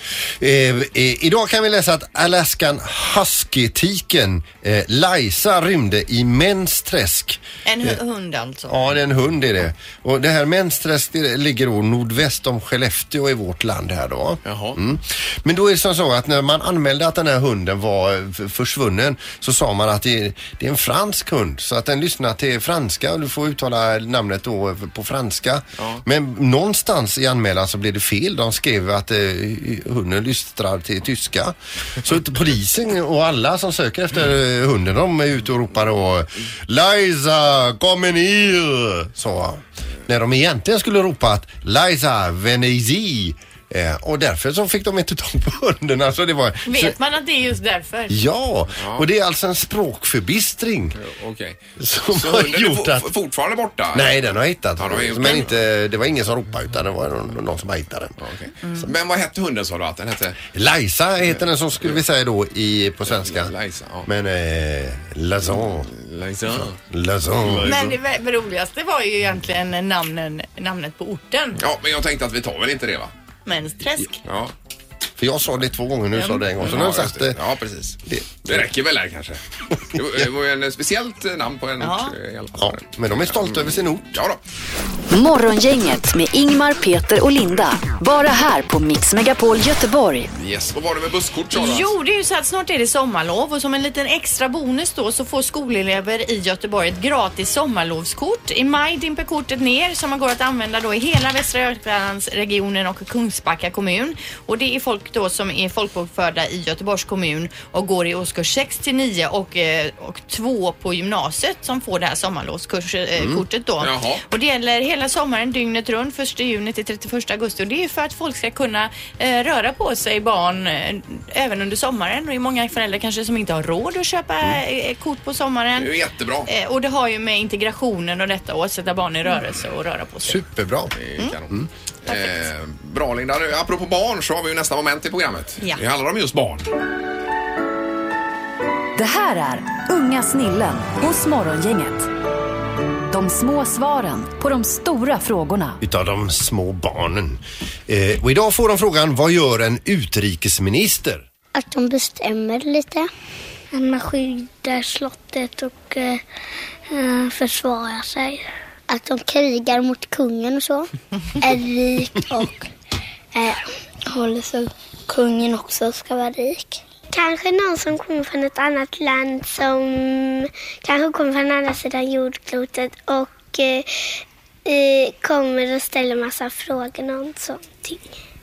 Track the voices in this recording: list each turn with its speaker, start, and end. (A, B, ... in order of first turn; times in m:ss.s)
0:00.3-0:07.9 A
0:07.6-0:08.8 B
0:08.7-0:47.0 A
0:14.4-0:14.8 C
0:46.7-0:48.2 B
0:48.1-0:51.0 A
0:48.8-0:49.1 C
0:51.0-0:51.6 C
0:51.8-0:53.1 A
0:52.1-0:54.2 C
0:53.9-0:58.2 A
0:54.8-0:55.6 C
0:58.2-1:00.4 C
1:00.5-1:03.5 A
1:03.1-1:04.1 C
1:04.0-1:05.9 A
1:05.6-1:06.8 C
1:06.8-1:07.7 A
1:07.4-1:08.0 C
1:07.7-1:11.6 B
1:11.6-1:13.1 C
1:13.5-1:14.2 B
1:14.2-1:14.5 C
1:15.2-1:17.4 A
1:16.2-1:16.4 B
1:16.6-1:19.4 C
1:18.1-1:18.6 A
1:19.9-1:24.4 C
1:21.8-1:22.1 B
1:22.6-1:24.2 A
1:25.1-1:30.3 D
1:30.4-1:31.9 C
1:31.5-2:05.9 B
1:53.8-1:54.2 C
2:05.8-2:06.5 C
2:06.5-2:10.4 B
2:10.2-2:10.9 A
2:11.0-2:16.7 C
2:12.1-2:12.4 B
2:19.0-2:22.1 D
2:23.1-2:25.8 D
2:25.8-2:31.2 A
2:31.6-2:33.1 E
2:33.7-2:36.2 E
2:36.9-2:42.7 E
2:43.3-2:53.9 E
2:54.7-2:58.1 E